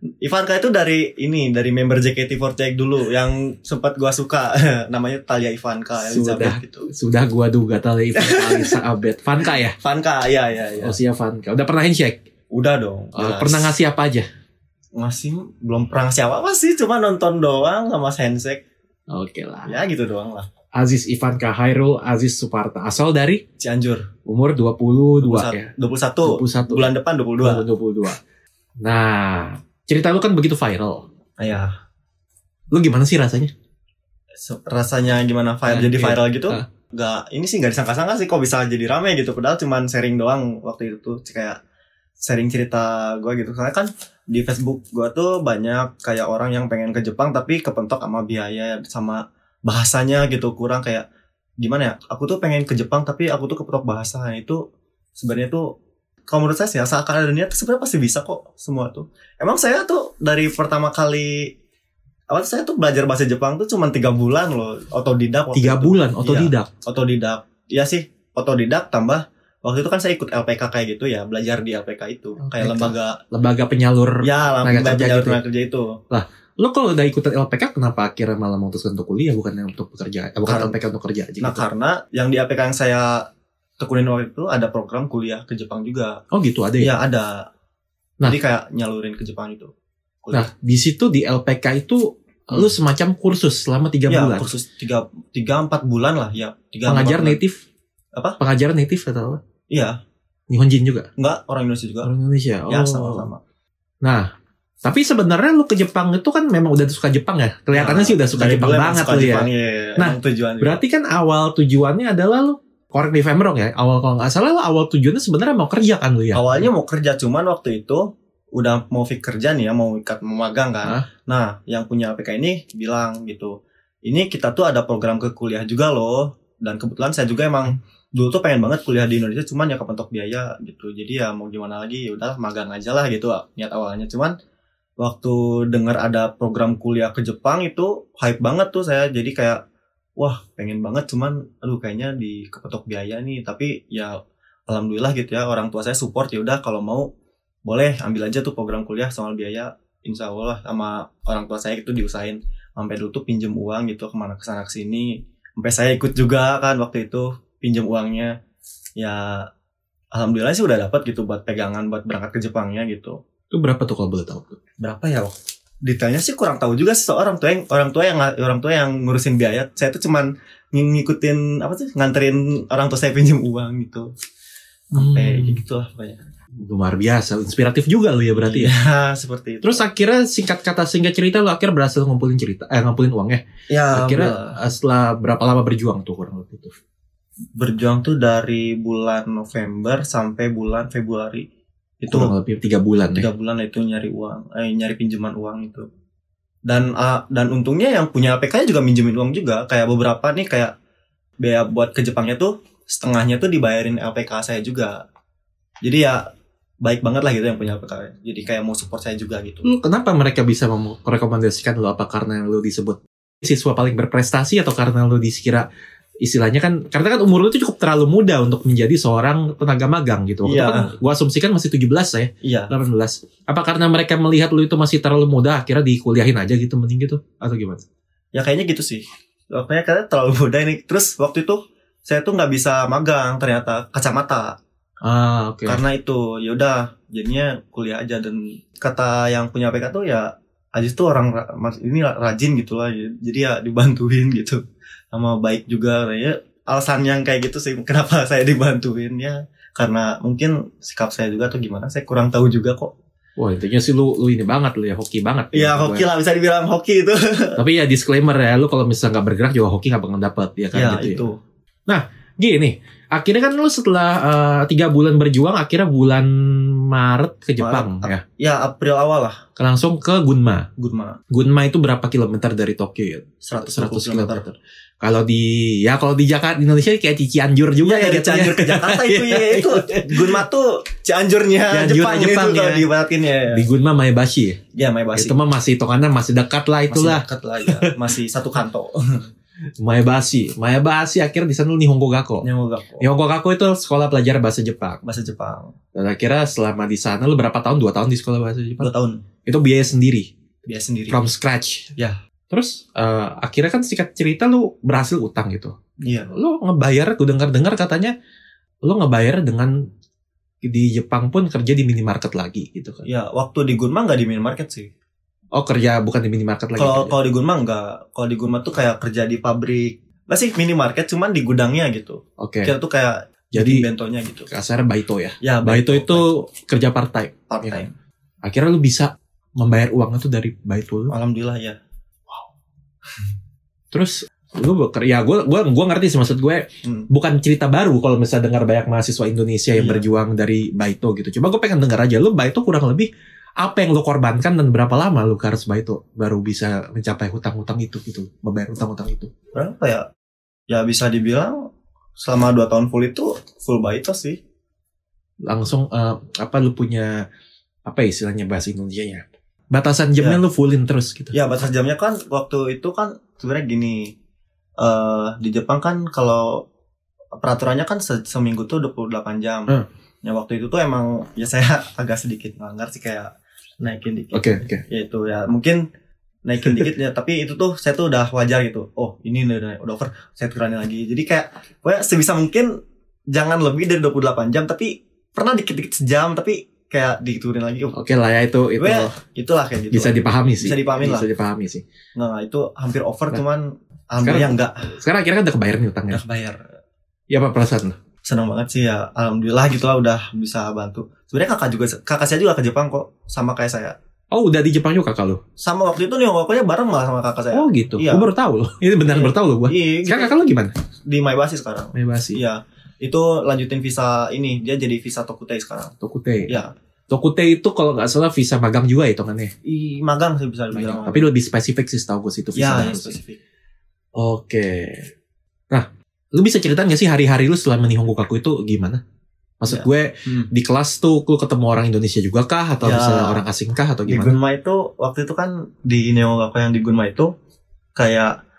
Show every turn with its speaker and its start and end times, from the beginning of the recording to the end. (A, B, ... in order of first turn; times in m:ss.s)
0:00.2-0:06.9 A
0:06.0-0:09.8 B
0:08.1-0:08.8 A
0:09.8-0:11.0 A
0:10.8-0:12.2 B
0:12.5-0:13.7 A
0:13.2-0:14.2 B
0:15.0-0:18.6 A
0:19.1-0:19.8 B
0:19.7-0:20.5 A
0:20.7-0:23.4 B
0:23.6-0:24.1 A
0:24.2-0:28.2 B
0:25.2-0:27.6 A
0:28.8-0:31.1 B
0:31.4-0:31.7 A
0:32.7-0:33.5 B
0:34.4-0:41.6 A
0:35.7-0:36.6 B
0:42.2-0:51.0 A
0:51.6-0:54.6 A
0:55.2-0:55.7 A
0:56.3-1:01.5 A
1:02.3-1:13.2 A
1:05.5-1:06.7 B
1:12.4-1:15.4 B
1:14.2-1:16.0 A
1:16.1-1:21.6 B
1:20.4-1:20.8 A
1:21.4-1:26.2 A
1:26.3-1:26.9 B
1:26.8-1:27.5 A
1:28.2-1:29.7 A
1:30.2-1:30.5 A
1:30.3-1:34.5 B
1:34.1-1:37.4 A
1:36.8-1:37.6 B
1:38.1-1:38.4 A
1:38.4-1:39.4 B
1:39.7-1:40.0 A
1:40.5-1:41.1 B
1:41.2-1:42.1 A
1:42.0-1:43.3 B
1:42.7-1:43.4 A
1:44.0-1:44.3 B
1:44.8-1:56.6 B
1:47.7-1:50.8 A
1:56.3-2:14.3 A
2:15.0-2:19.6 A
2:20.2-2:24.2 A
2:24.7-2:27.1 A
2:27.6-2:38.3 A
2:39.0-2:39.5 A
2:40.1-2:43.2 A
2:43.5-2:44.6 B
2:44.8-2:54.1 A
2:54.9-2:56.2 A
2:54.9-2:55.6 B
2:56.6-2:58.7 B
2:58.4-2:59.8 A
2:59.6-3:06.7 B
3:03.7-3:04.6 A
3:07.6-3:11.5 A
3:12.0-3:12.3 A
3:12.1-3:13.3 B
3:13.1-3:15.9 A
3:16.7-3:20.7 A
3:21.4-3:25.0 A
3:25.8-3:26.2 A
3:26.8-3:29.7 A
3:29.6-3:35.6 B
3:36.2-3:47.8 B
3:40.4-3:40.9 A
3:42.4-3:42.7 A
3:48.3-3:54.6 A
3:55.0-3:55.8 B
3:55.7-4:04.6 A
4:05.1-4:12.9 A
4:13.4-4:16.1 B
4:15.5-4:17.6 A
4:17.6-4:21.3 B
4:20.7-4:21.4 A
4:21.9-4:28.2 B
4:27.6-4:29.4 A
4:29.6-4:30.7 B
4:30.8-4:31.2 A
4:31.3-4:40.4 B
4:33.4-4:34.4 A
4:37.8-4:43.6 A
4:41.7-4:42.9 B
4:43.5-4:44.6 B
4:44.7-4:45.4 A
4:45.1-4:47.9 B
4:46.9-4:49.2 A
4:49.8-4:52.5 B
4:52.4-4:53.1 A
4:53.0-4:55.0 B
4:55.0-4:55.7 A
4:55.9-4:58.9 B
4:58.8-4:59.2 A
4:59.4-5:00.3 B
5:00.6-5:01.2 A
5:01.1-5:01.9 B
5:02.5-5:05.8 B
5:06.0-5:06.3 A
5:06.3-5:08.1 B
5:08.8-5:09.8 B
5:10.6-5:13.0 B
5:13.0-5:14.9 A
5:15.5-5:17.1 B
5:16.8-5:24.5 A
5:22.4-5:22.7 B
5:23.5-5:23.8 B
5:24.5-5:27.8 B
5:25.4-5:26.3 A
5:27.5-5:27.9 A
5:28.4-5:31.1 B
5:31.1-5:31.8 A
5:33.9-5:49.3 B
5:36.8-5:37.1 A
5:39.7-5:40.0 A
5:49.5-5:50.1 A
5:50.7-5:54.4 A
5:55.4-5:57.2 B
5:57.8-6:01.3 B
6:01.3-6:04.2 A
6:04.8-6:06.6 A
6:07.3-6:15.9 A
6:14.3-6:14.8 B
6:16.4-6:22.8 A
6:23.3-6:28.0 A
6:27.9-6:29.1 B
6:28.8-6:31.3 A
6:29.9-6:31.8 B
6:32.2-6:34.9 A
6:34.2-6:36.2 B
6:36.1-6:36.7 A
6:37.3-6:38.0 B
6:38.2-6:44.0 A
6:44.3-6:45.4 B
6:45.6-6:48.3 A
6:47.5-6:50.7 B
6:49.0-6:50.5 A
6:51.1-6:55.9 A
6:51.9-6:52.4 B
6:56.0-6:56.6 B
6:57.1-6:59.5 B
6:59.6-7:01.3 A
7:00.7-7:03.2 B
7:02.6-7:03.4 A
7:04.1-7:05.1 B
7:05.7-7:09.0 B
7:09.6-7:14.4 B
7:09.6-7:10.5 A
7:12.8-7:13.4 A
7:14.0-7:17.3 A
7:18.0-7:18.4 A